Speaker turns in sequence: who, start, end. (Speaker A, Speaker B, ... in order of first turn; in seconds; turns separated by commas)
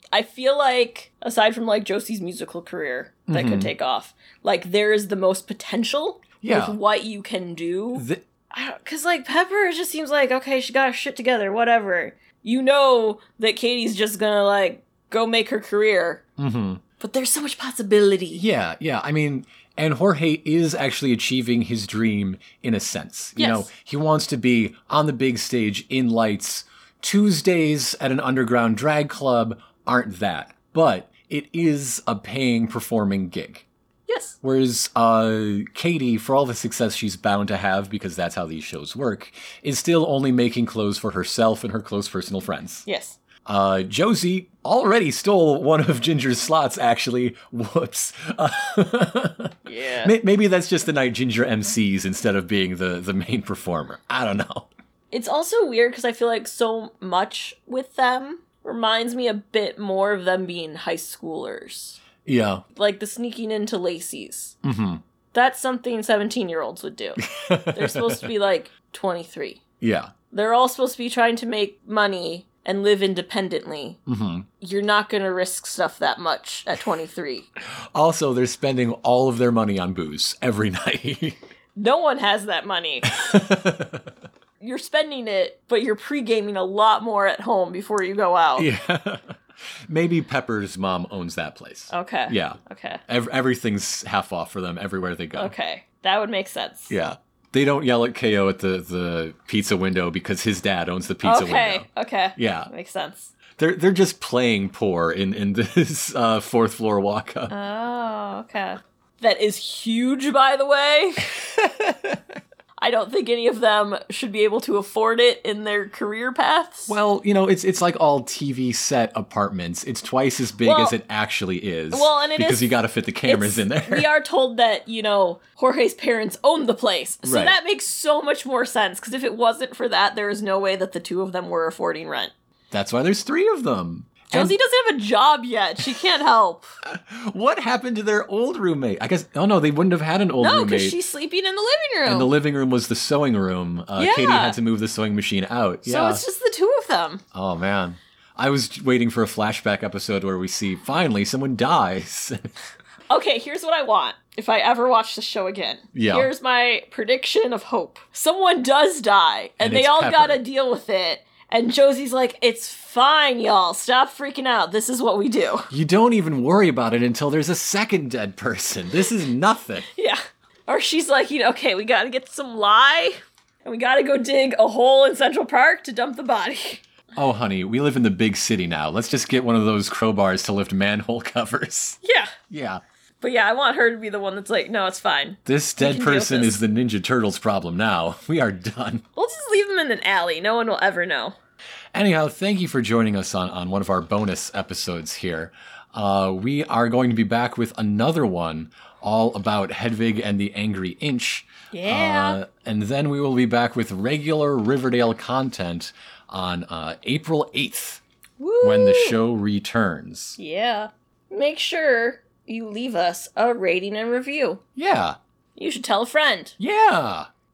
Speaker A: 0.1-16.2, Speaker B: 3.3-3.7, Speaker B: 6.4-6.8, Speaker B: 7.9-8.2, Speaker B: 16.4-16.8, Speaker A: 17.0-18.4, Speaker B: 18.4-33.6, Speaker A: 23.4-23.7, Speaker A: 34.1-34.4, Speaker B: 34.4-42.9, Speaker A: 42.9-43.2, Speaker B: 43.5-54.7, Speaker A: 49.7-50.2, Speaker A: 55.1-62.0, Speaker B: 62.2-62.6, Speaker A: 62.8-64.6, Speaker B: 64.6-65.0, Speaker A: 65.3-69.6, Speaker B: 67.2-68.3, Speaker B: 69.8-70.1, Speaker A: 70.3-74.0, Speaker B: 74.1-74.5, Speaker A: 74.6-77.5, Speaker B: 77.8-81.4, Speaker A: 81.8-83.1, Speaker B: 83.1-84.1, Speaker A: 84.6-88.7, Speaker B: 88.6-89.3, Speaker B: 89.9-95.5, Speaker A: 91.9-93.0, Speaker A: 95.3-96.9, Speaker B: 96.9-102.7, Speaker A: 101.2-103.3, Speaker B: 103.6-107.5, Speaker A: 107.5-111.3, Speaker B: 111.3-112.2, Speaker A: 112.8-116.9, Speaker B: 116.9-124.1, Speaker A: 120.6-121.0, Speaker A: 121.9-122.7, Speaker A: 123.2-132.3, Speaker B: 127.2-127.6, Speaker B: 132.7-134.5, Speaker A: 134.3-136.7, Speaker B: 136.9-141.0, Speaker A: 140.4-142.3, Speaker B: 142.1-146.2, Speaker A: 144.0-144.6, Speaker A: 145.8-147.2, Speaker B: 147.3-152.5, Speaker A: 153.1-165.7, Speaker B: 155.9-156.3, Speaker B: 159.6-160.4, Speaker B: 165.7-169.9, Speaker A: 169.9-176.8, Speaker B: 177.2-182.8, Speaker A: 182.0-182.3, Speaker A: 183.2-186.6, Speaker B: 185.5-189.0, Speaker A: 189.2-191.3, Speaker B: 191.9-208.0, Speaker A: 201.7-202.4, Speaker A: 208.4-209.2, Speaker B: 208.6-210.4, Speaker A: 210.4-214.6, Speaker B: 214.8-215.2, Speaker A: 215.6-216.6, Speaker B: 216.6-217.3